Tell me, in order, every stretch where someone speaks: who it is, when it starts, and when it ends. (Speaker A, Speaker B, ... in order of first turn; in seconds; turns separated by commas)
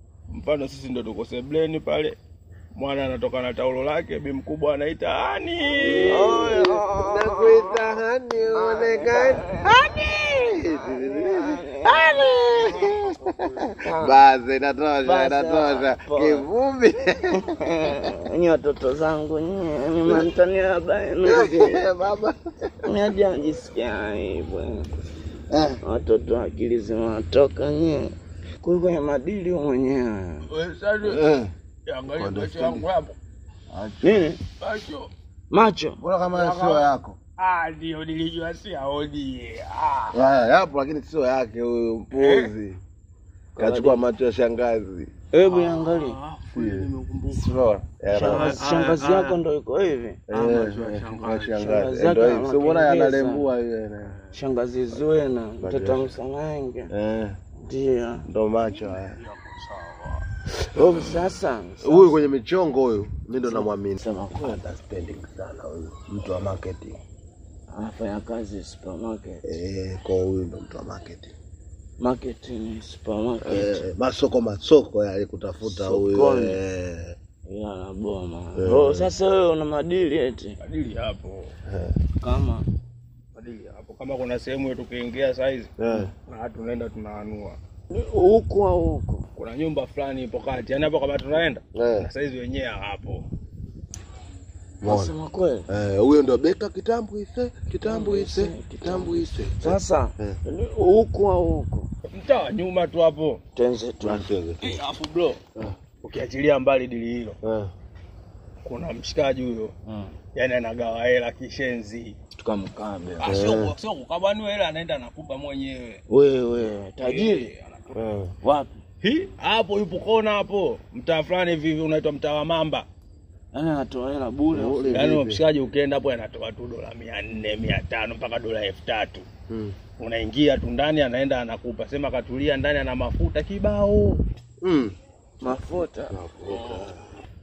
Speaker A: 0.3-2.2, Speaker A: 2.7-6.3, Speaker B: 5.8-17.4, Speaker C: 5.9-7.8, Speaker C: 8.5-9.7, Speaker C: 10.7-12.2, Speaker A: 12.6-12.9, Speaker C: 13.8-14.1, Speaker C: 15.0-16.4, Speaker C: 17.6-21.8, Speaker B: 21.2-22.7, Speaker C: 22.8-24.9, Speaker B: 25.5-25.8, Speaker C: 25.8-30.4, Speaker A: 30.5-31.2, Speaker B: 31.0-31.5, Speaker A: 31.9-33.1, Speaker B: 32.1-32.9, Speaker B: 33.7-34.3, Speaker C: 34.0-34.4, Speaker A: 34.6-35.1, Speaker C: 35.5-36.0, Speaker B: 36.0-37.2, Speaker A: 36.3-40.1, Speaker B: 40.1-42.8, Speaker A: 42.1-42.5, Speaker C: 43.5-44.0, Speaker B: 43.6-45.1, Speaker C: 45.3-46.2, Speaker A: 45.5-47.5, Speaker B: 46.5-48.6, Speaker A: 48.1-49.4, Speaker C: 48.1-50.2, Speaker B: 50.3-54.1, Speaker A: 50.3-51.5, Speaker C: 51.5-53.5, Speaker C: 54.3-56.9, Speaker B: 55.6-56.1, Speaker B: 56.9-57.4, Speaker C: 57.6-58.2, Speaker B: 58.2-59.2, Speaker A: 58.7-60.2, Speaker C: 60.6-62.2, Speaker B: 61.8-67.0, Speaker C: 63.4-64.6, Speaker C: 67.7-69.4, Speaker B: 69.4-71.3, Speaker C: 72.0-73.8, Speaker B: 73.4-77.1, Speaker C: 75.6-76.6, Speaker C: 77.5-80.6, Speaker B: 78.5-79.2, Speaker A: 80.6-81.5, Speaker B: 81.7-82.0, Speaker C: 82.2-82.6, Speaker A: 83.3-85.7, Speaker B: 85.8-86.1, Speaker A: 86.2-87.6, Speaker C: 87.9-89.3, Speaker A: 89.3-93.2, Speaker B: 91.7-92.1, Speaker B: 94.8-95.1, Speaker C: 94.8-95.7, Speaker B: 95.7-100.4, Speaker C: 97.8-101.9, Speaker A: 102.1-103.4, Speaker C: 103.5-104.2, Speaker B: 104.0-104.8, Speaker A: 104.6-105.4, Speaker A: 106.0-107.3, Speaker B: 107.4-107.7, Speaker A: 108.6-109.7, Speaker A: 110.3-112.1, Speaker C: 112.4-113.4, Speaker A: 113.2-116.0, Speaker B: 113.2-113.8, Speaker C: 116.1-117.5, Speaker A: 117.0-117.9, Speaker B: 117.9-118.3, Speaker C: 118.4-118.7, Speaker A: 119.0-122.8, Speaker C: 123.5-124.8, Speaker B: 124.5-125.4, Speaker A: 124.9-129.2, Speaker B: 129.5-129.8, Speaker A: 130.0-134.2, Speaker B: 134.6-134.9, Speaker C: 135.4-136.2, Speaker B: 136.1-137.0, Speaker A: 136.5-136.9